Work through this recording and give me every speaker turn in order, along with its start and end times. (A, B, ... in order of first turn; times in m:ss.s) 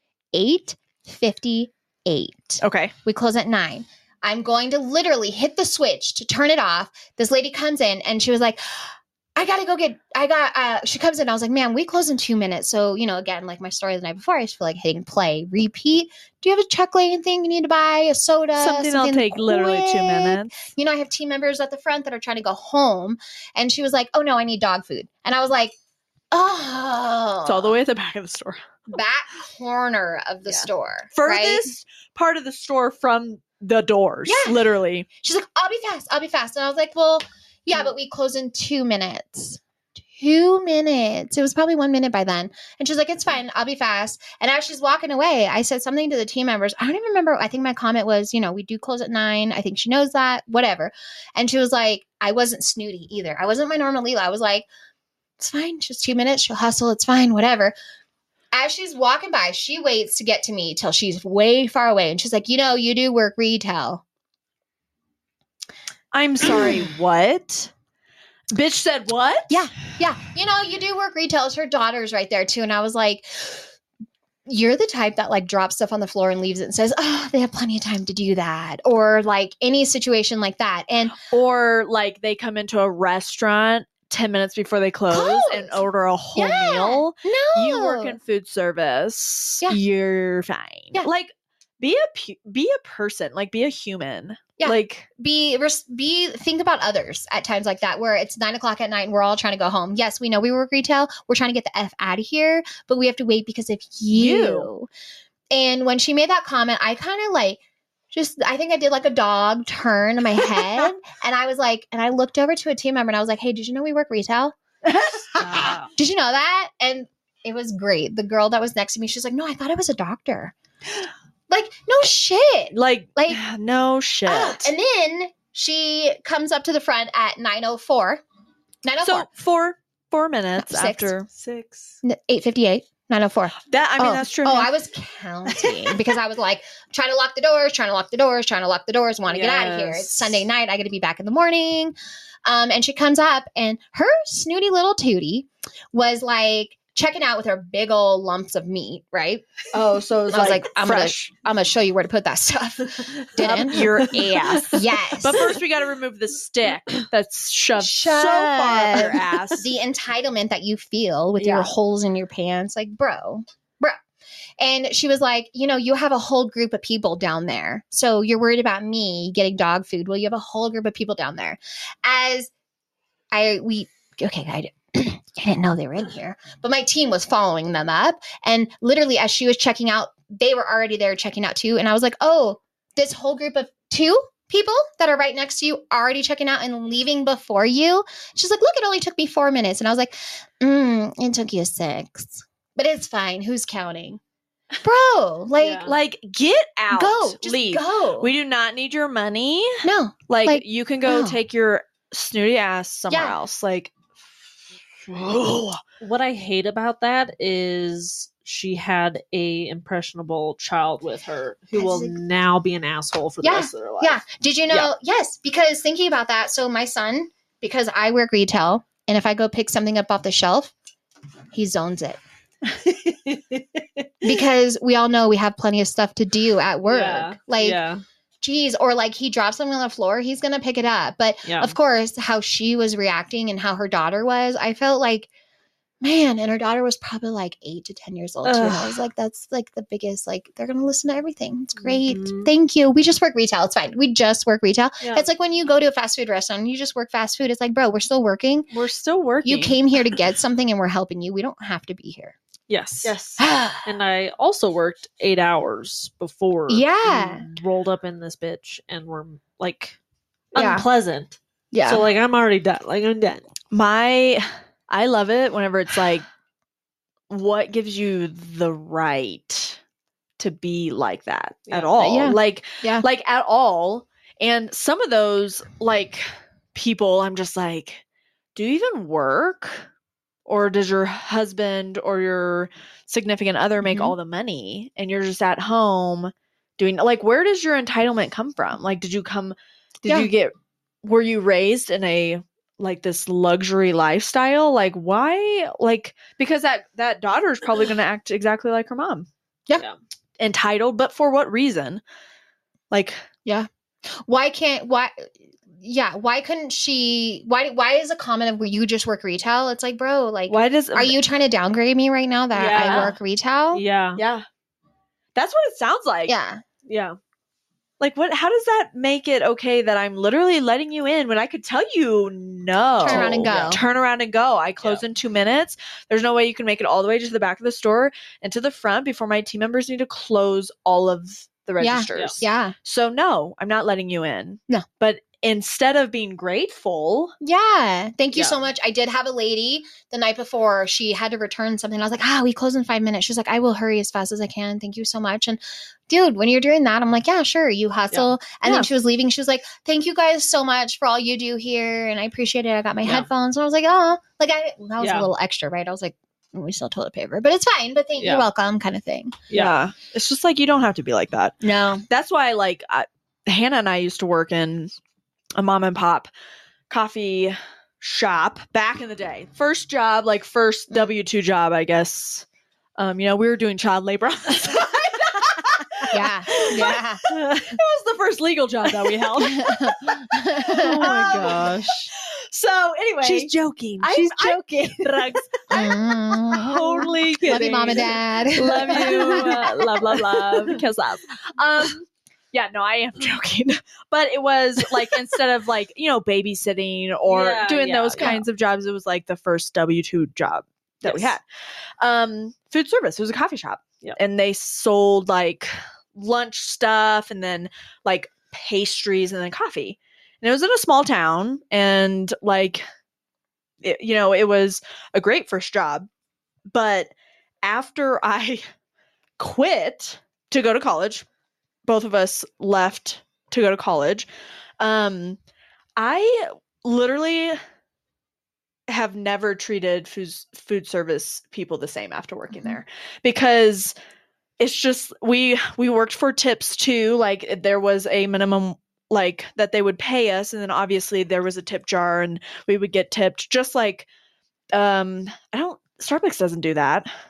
0:00.3-0:25.8 A
0:02.6-0:02.9 B
0:18.6-0:20.6 B
0:26.3-0:27.8 A
0:27.4-0:28.6 B
0:28.9-0:31.7 A
0:30.5-0:35.1 B
0:34.2-0:34.6 A
0:35.2-0:39.6 A
0:40.2-0:54.7 A
0:55.4-0:57.7 A
0:58.5-1:04.0 A
1:06.1-1:07.7 B
1:08.5-1:09.6 B
1:09.5-1:13.7 A
1:14.4-1:21.2 A
1:21.2-1:35.1 B
1:25.1-1:25.8 A
1:26.3-1:28.2 A
1:34.6-1:44.9 A
1:44.1-1:44.7 B
1:45.5-1:47.6 A
1:48.1-1:54.6 A
1:54.8-1:55.8 B
1:55.4-2:00.5 A
1:55.4-1:55.9 C
2:01.5-2:03.4 A
2:02.7-2:04.7 B
2:04.3-2:08.2 A
2:08.8-2:09.3 A
2:09.0-2:12.0 B
2:10.5-2:11.1 A
2:12.0-2:21.9 A
2:13.6-2:14.7 B
2:15.6-2:15.9 B
2:19.3-2:20.4 C
2:22.4-2:29.6 A
2:29.7-2:31.3 B
2:30.3-2:33.8 A
2:33.4-2:39.7 B
2:33.7-2:34.7 C
2:34.6-2:35.5 A
2:37.8-2:44.0 A
2:44.6-2:52.5 A
2:53.3-3:14.2 A
3:14.8-3:15.9 A
3:15.6-3:15.9 C
3:15.8-3:23.9 B
3:16.9-3:18.3 A
3:19.8-3:21.4 A
3:23.1-3:23.4 A
3:25.0-3:25.8 B
3:26.0-3:34.2 C
3:31.7-3:32.2 A
3:33.4-3:40.7 A
3:41.5-3:42.2 A
3:42.7-3:44.4 C
3:44.2-3:47.8 A
3:46.9-3:48.0 C
3:48.4-3:55.3 A
3:51.4-3:51.7 C
3:56.0-4:08.7 A
3:58.4-3:59.0 C
4:01.8-4:02.5 C
4:05.0-4:05.3 C
4:08.7-4:09.8 B
4:09.4-4:12.4 A
4:12.7-4:13.2 C
4:13.0-4:13.4 B
4:13.4-4:13.9 A
4:13.8-4:20.0 C
4:16.7-4:17.5 A
4:20.5-4:23.4 C
4:20.6-4:20.8 A
4:21.7-4:22.0 A
4:23.7-4:26.2 B
4:27.3-4:29.8 B
4:30.4-4:38.0 B
4:31.7-4:31.9 C
4:32.0-4:33.0 A
4:38.5-4:39.9 B
4:40.4-4:59.3 B
4:43.8-4:44.1 A
5:00.4-5:02.0 B
5:02.9-5:03.2 B
5:04.2-5:13.8 A
5:10.5-5:11.2 B
5:12.5-5:13.2 C
5:12.7-5:13.1 B
5:13.7-5:14.2 C
5:14.2-5:14.4 B
5:15.3-5:16.3 B
5:16.3-5:16.6 A
5:16.8-5:17.2 C
5:18.0-5:37.3 B
5:23.0-5:23.8 A
5:23.0-5:23.8 C
5:31.8-5:32.7 A
5:37.4-5:59.4 A
5:55.0-5:55.3 C
5:58.2-5:58.4 C
5:59.5-5:59.7 C
5:59.5-6:01.6 B
6:01.6-6:02.0 A
6:02.1-6:04.9 B
6:05.6-6:06.3 B
6:06.9-6:12.4 B
6:13.0-6:41.4 B
6:16.1-6:17.2 A
6:16.6-6:17.8 C
6:18.8-6:19.4 C
6:19.4-6:21.7 A
6:20.7-6:22.1 C
6:23.2-6:25.9 C
6:25.7-6:29.6 A
6:26.8-6:28.2 C
6:28.9-6:30.8 C
6:37.2-6:38.4 C
6:41.0-6:41.4 C
6:42.0-6:52.8 B
6:53.8-6:56.1 B
6:56.7-6:57.1 B
6:57.6-6:58.6 B
6:59.4-7:01.2 B
7:01.8-7:04.3 B
7:04.8-7:05.4 B
7:06.0-7:07.6 B
7:08.9-7:13.9 B
7:12.5-7:12.8 A
7:14.6-7:24.1 B
7:24.7-7:27.1 B